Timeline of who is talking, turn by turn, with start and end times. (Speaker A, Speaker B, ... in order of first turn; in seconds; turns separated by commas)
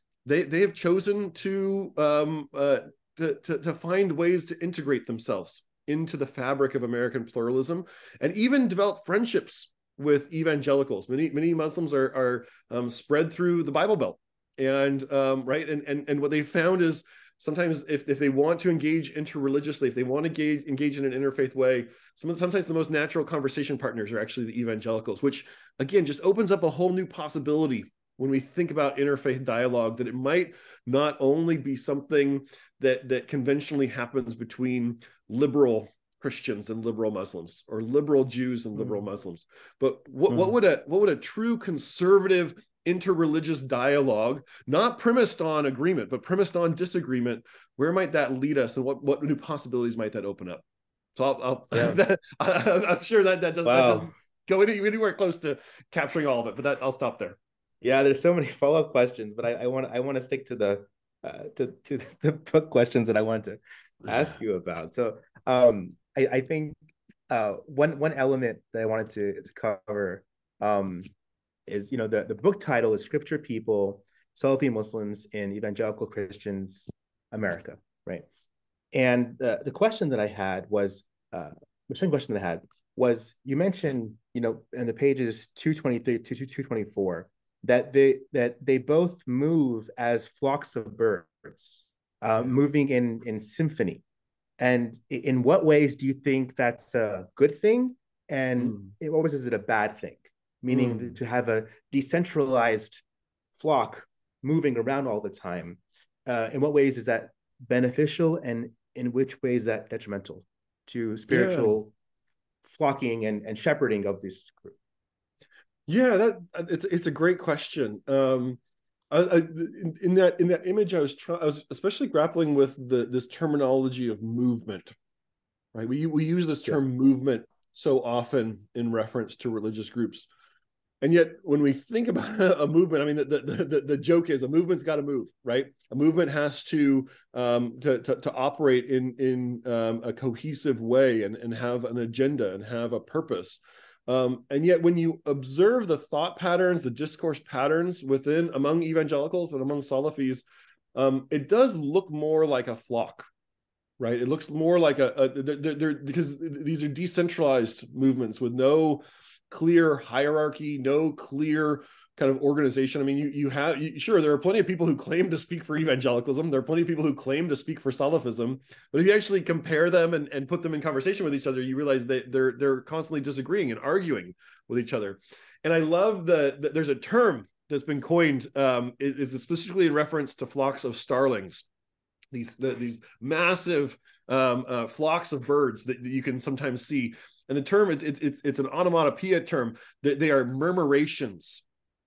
Speaker A: 0.2-50.6, Speaker B: 40.3-40.5, Speaker A: 51.2-57.4, Speaker B: 51.7-52.0, Speaker B: 53.6-54.1, Speaker B: 57.8-66.8, Speaker B: 67.3-71.1, Speaker B: 71.7-78.3, Speaker B: 78.9-94.0, Speaker B: 94.6-103.0, Speaker A: 98.6-98.9, Speaker A: 100.7-101.1, Speaker B: 103.6-111.9, Speaker A: 111.3-111.8, Speaker B: 112.6-114.8, Speaker A: 115.9-118.6, Speaker A: 119.1-124.9, Speaker A: 125.7-130.3, Speaker A: 131.0-153.3, Speaker A: 154.0-181.7, Speaker A: 182.3-191.6